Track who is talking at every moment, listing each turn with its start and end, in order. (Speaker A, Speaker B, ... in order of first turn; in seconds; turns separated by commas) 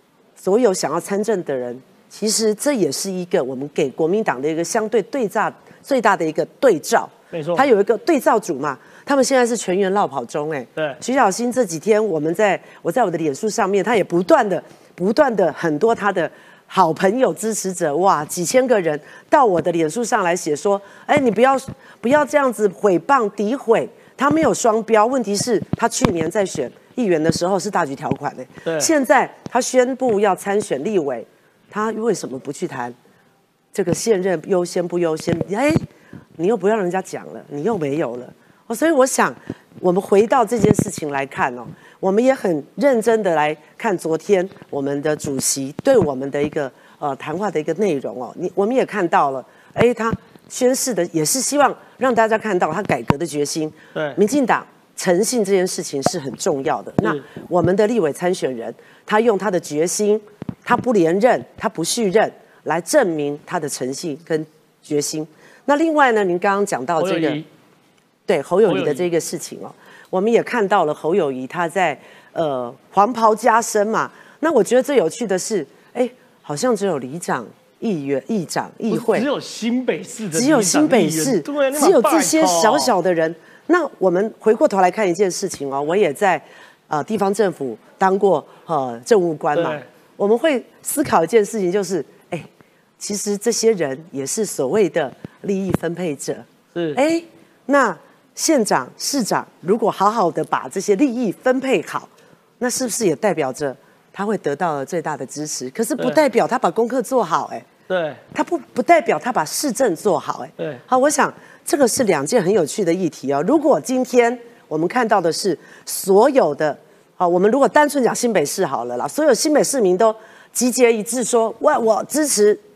Speaker A: 0.4-33.0, Speaker B: 7.3-7.7, Speaker B: 28.6-28.9, Speaker A: 33.7-35.8, Speaker A: 36.4-67.4, Speaker B: 67.0-67.4, Speaker A: 68.3-79.3, Speaker B: 68.7-69.0, Speaker B: 78.9-82.9, Speaker A: 80.3-107.7, Speaker B: 89.5-89.8, Speaker B: 96.7-97.0, Speaker B: 107.9-108.2, Speaker A: 108.3-122.6